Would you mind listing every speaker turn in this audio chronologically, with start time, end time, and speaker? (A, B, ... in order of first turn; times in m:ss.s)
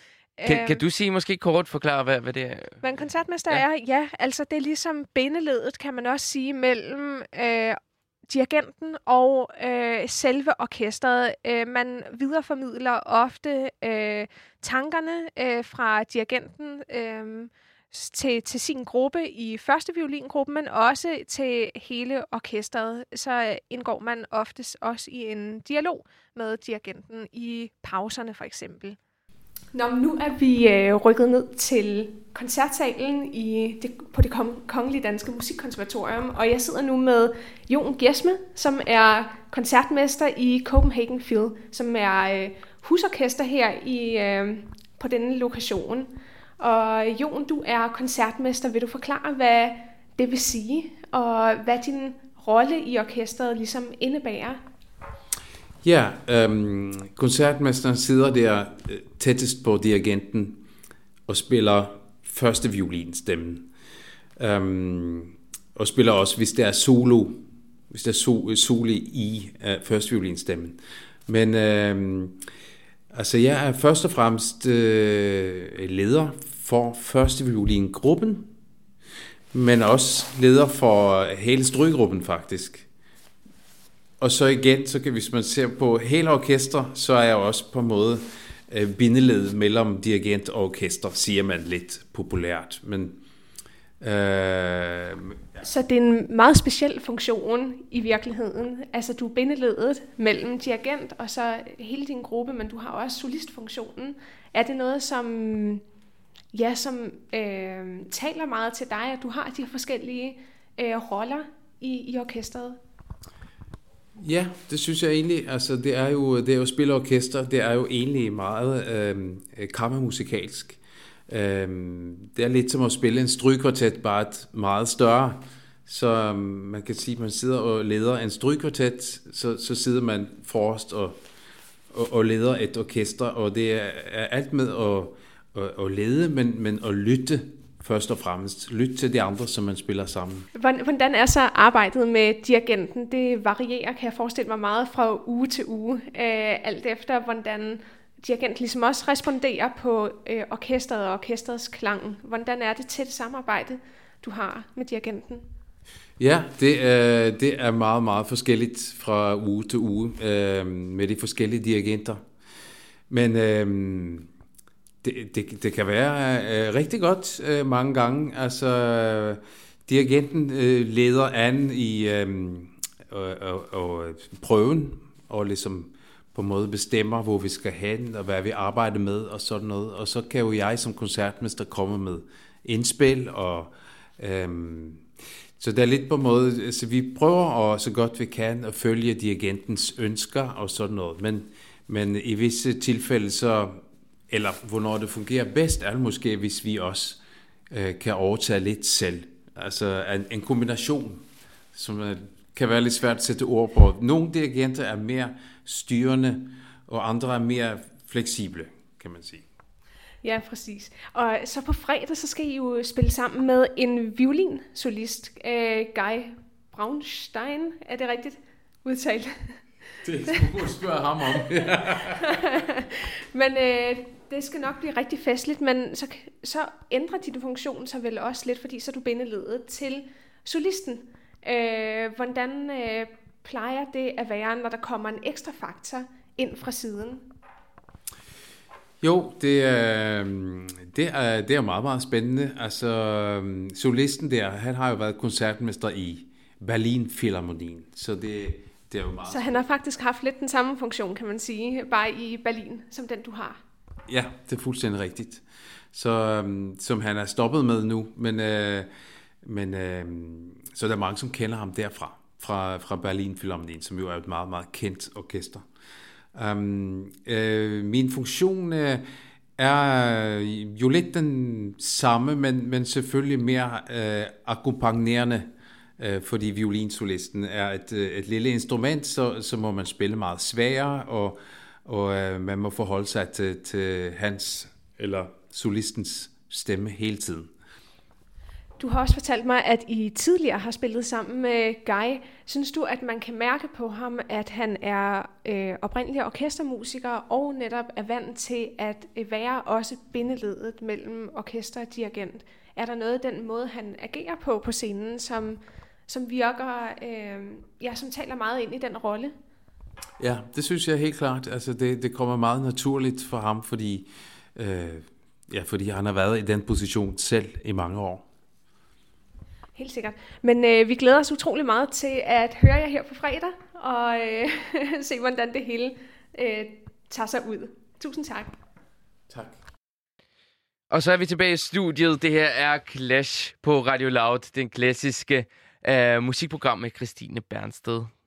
0:00.4-0:00.8 A
0:00.5-0:02.8 B
0:02.8-0:29.0 A
0:29.7-0:54.6 A
0:55.8-1:00.6 C
1:01.3-1:03.7 C
1:04.4-1:12.4 C
1:13.1-1:18.5 C
1:19.5-1:22.9 C
1:24.2-1:33.2 C
1:34.0-1:35.4 C
1:35.6-1:45.8 A
1:46.5-1:52.8 A
1:54.2-2:11.2 C
2:11.9-2:20.5 C
2:20.6-2:35.5 A
2:36.2-2:42.2 C
2:43.1-2:44.3 C
2:45.0-3:05.1 C
3:05.6-3:17.2 C
3:17.7-3:21.2 C
3:21.7-3:29.4 C
3:30.2-3:39.6 A
3:40.0-3:42.4 C
3:42.2-3:57.3 A
3:59.0-4:09.6 C
4:09.3-4:13.6 A
4:14.1-4:15.4 C
4:15.9-4:18.9 C
4:19.4-4:25.6 C
4:26.4-4:29.0 C
4:29.6-4:47.5 C
4:48.8-5:09.3 A
5:10.2-5:18.2 C
5:19.8-5:28.5 A
5:29.3-5:29.6 C
5:30.9-5:38.1 B